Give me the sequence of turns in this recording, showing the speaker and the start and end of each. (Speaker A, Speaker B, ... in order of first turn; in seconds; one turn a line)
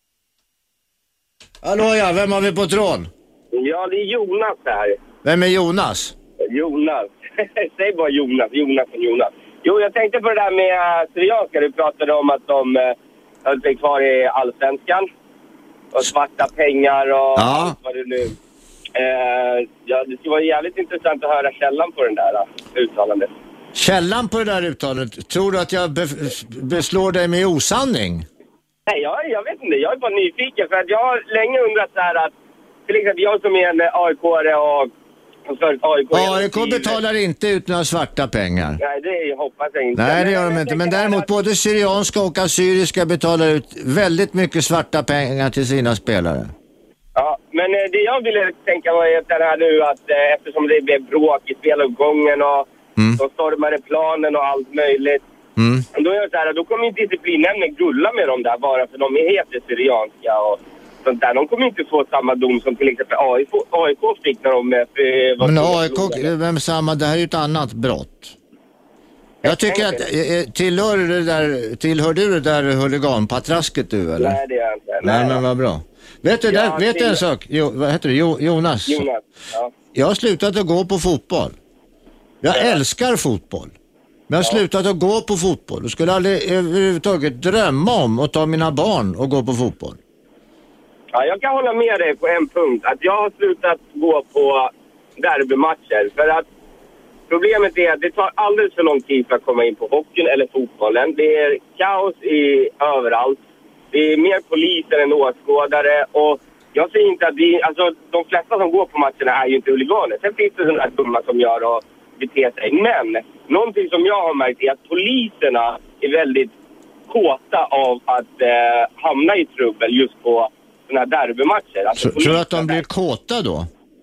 Speaker A: 1.6-3.1
Speaker B: 3.5-5.0
Speaker A: 5.2-6.1
Speaker B: 6.5-15.1
Speaker B: 15.9-18.3
Speaker A: 17.4-17.7
Speaker B: 18.9-23.3
Speaker A: 23.7-28.2
Speaker B: 28.9-32.3
Speaker B: 32.9-34.9
Speaker B: 35.5-37.0
Speaker A: 36.1-38.8
Speaker B: 38.8-41.3
Speaker A: 40.0-46.5
Speaker B: 47.1-55.2
Speaker A: 55.6-55.8
Speaker B: 55.9-66.3
Speaker A: 65.4-68.3
Speaker B: 69.4-70.0
Speaker A: 69.4-74.3
Speaker B: 74.2-75.4
Speaker A: 75.0-79.0
Speaker B: 76.5-77.2
Speaker B: 78.9-79.7
Speaker A: 79.9-81.5
Speaker A: 82.4-83.7
Speaker B: 82.5-82.8
Speaker A: 84.3-90.0
Speaker B: 91.1-96.5
Speaker B: 97.3-103.4
Speaker B: 103.9-116.5
Speaker B: 117.1-122.8
Speaker A: 122.0-123.7